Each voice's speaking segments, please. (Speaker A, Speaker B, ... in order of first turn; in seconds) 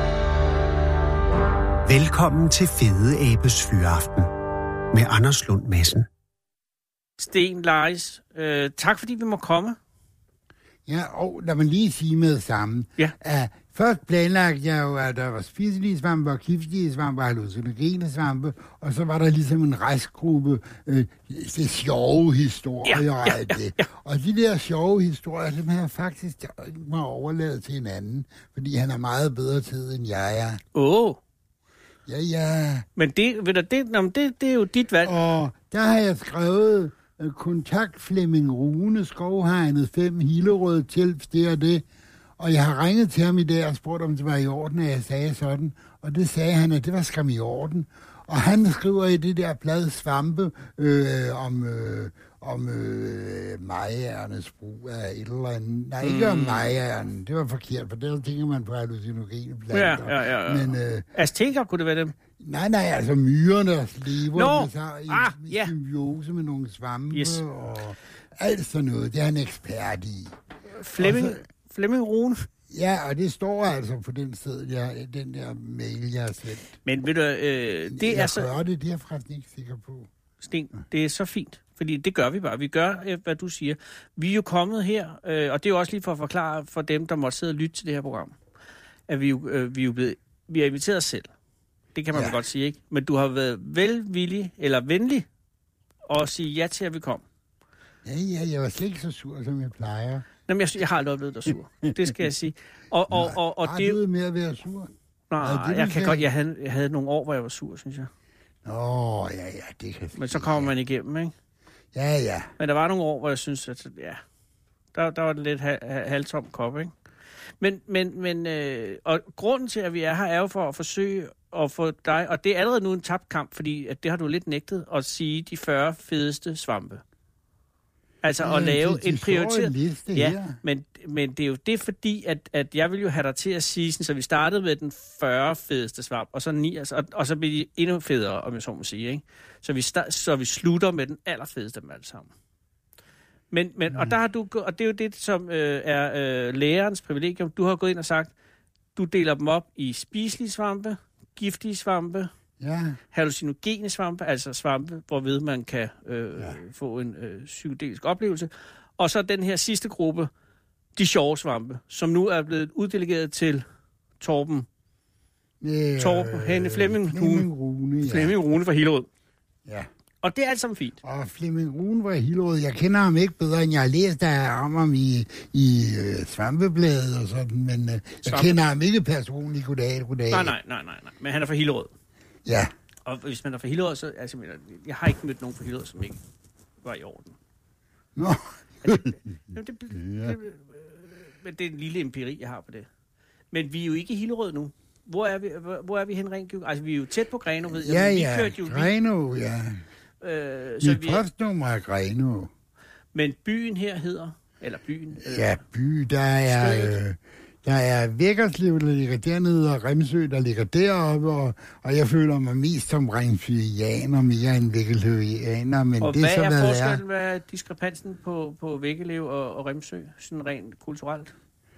Speaker A: 1.9-4.3, 4.9-6.1
Speaker B: 7.2-9.8, 22.9-23.9, 30.8-31.2, 33.0-35.1, 56.0-56.7, 59.7-62.2, 64.3-65.7, 67.1-67.4, 70.7-72.5, 76.8-78.5, 80.4-88.3, 89.1-91.3, 92.0-95.3, 96.1-97.2, 100.5-104.0, 105.3-108.1, 110.2-111.3, 112.6-114.2, 114.9-116.9, 117.6-127.0, 128.2-142.3, 143.5-148.3, 148.9-152.3, 153.1-160.3, 161.0-163.7, 164.2-164.7, 166.0-167.5, 168.0-169.1, 170.2-171.0, 178.2-178.6, 180.3-181.9, 183.1-186.2, 186.8-187.4, 188.8-192.9, 193.5-198.9, 200.2-201.2, 203.1-205.6, 206.5-207.0, 216.0-221.3
Speaker C: 10.9-30.6, 32.1-32.9, 35.0-41.8, 42.4-61.1, 62.4-70.3, 71.0-71.4, 72.7-76.7, 77.9-80.1, 98.0-100.3, 103.1-106.2, 108.7-110.7, 111.9-112.5, 128.4-130.6, 152.6-153.0, 165.6-168.4, 171.0-180.5, 182.4-182.7, 188.2-189.2, 189.9-190.4, 197.7-199.8, 200.8-202.5, 205.2-217.0